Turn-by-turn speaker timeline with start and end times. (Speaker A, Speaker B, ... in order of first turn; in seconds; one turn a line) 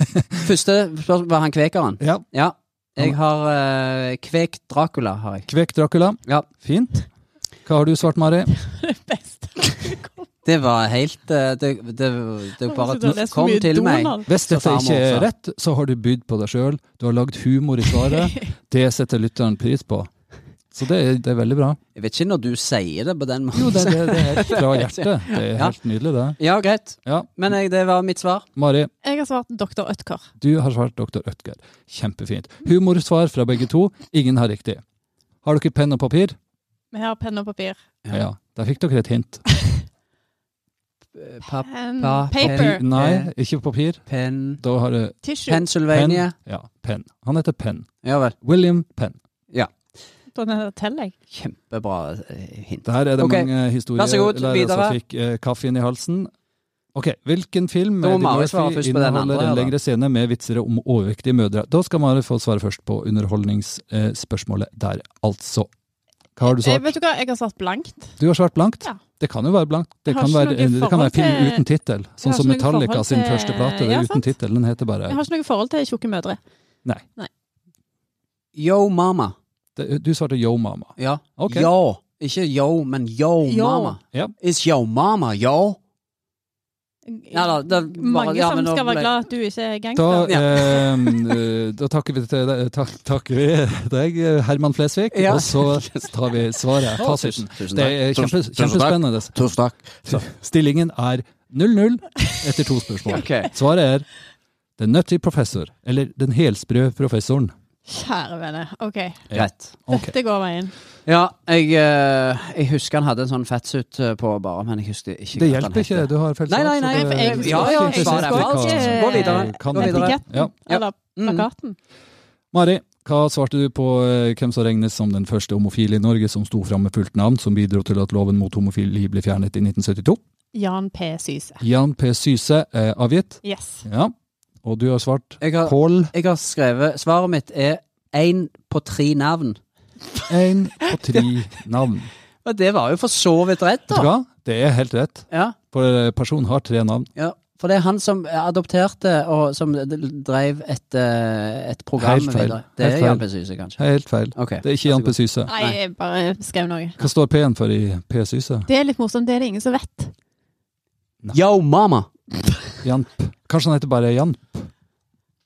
Speaker A: 0.3-5.5
Speaker B: 5.5-7.0
Speaker B: 7.7-8.5
Speaker C: 8.6-10.3
Speaker A: 10.4-15.3
Speaker C: 12.7-14.3
Speaker B: 14.3-20.1
Speaker C: 18.0-18.5
Speaker B: 20.7-21.8
Speaker A: 21.9-25.8
Speaker B: 23.5-26.4
Speaker A: 26.4-28.5
Speaker B: 28.6-28.9
Speaker C: 29.0-30.3
Speaker B: 30.4-34.8
Speaker B: 35.4-36.4
Speaker C: 36.9-37.8
Speaker B: 38.1-39.4
Speaker A: 41.2-43.3
Speaker C: 41.6-42.8
Speaker B: 42.4-44.0
Speaker A: 44.1-44.6
Speaker B: 44.6-45.2
Speaker C: 45.2-45.6
Speaker A: 45.5-46.3
Speaker B: 45.9-47.9
Speaker A: 48.0-48.4
Speaker B: 48.4-49.2
Speaker C: 50.3-51.1
Speaker A: 51.3-55.0
Speaker B: 52.9-56.3
Speaker B: 57.0-65.7
Speaker A: 58.0-59.7
Speaker B: 66.4-66.9
Speaker C: 66.4-68.2
Speaker B: 68.2-75.2
Speaker C: 70.1-71.6
Speaker C: 72.2-74.3
Speaker C: 75.1-76.4
Speaker A: 78.5-79.3
Speaker B: 79.8-81.7
Speaker A: 81.0-85.8
Speaker C: 83.5-84.0
Speaker C: 87.1-91.2
Speaker A: 87.3-89.1
Speaker B: 90.0-99.3
Speaker A: 90.3-90.5
Speaker A: 95.1-96.1
Speaker A: 96.9-100.3
Speaker B: 100.1-104.1
Speaker A: 103.1-103.5
Speaker B: 104.8-107.5
Speaker C: 107.9-109.2
Speaker B: 109.3-110.1
Speaker A: 109.3-109.7
Speaker C: 109.9-110.7
Speaker A: 111.1-121.5
Speaker B: 115.3-120.5
Speaker C: 116.9-121.8
Speaker B: 122.5-130.2
Speaker C: 130.5-131.6
Speaker B: 131.6-136.1
Speaker C: 133.4-133.8
Speaker A: 135.4-139.6
Speaker B: 140.3-142.1
Speaker A: 142.4-144.1
Speaker B: 143.9-147.1
Speaker A: 145.3-145.6
Speaker A: 147.2-153.8
Speaker B: 152.0-153.2
Speaker B: 153.8-155.5
Speaker A: 154.3-155.8
Speaker C: 155.5-157.0
Speaker B: 157.0-158.7
Speaker C: 158.7-160.1
Speaker A: 161.3-162.1
Speaker B: 162.8-164.7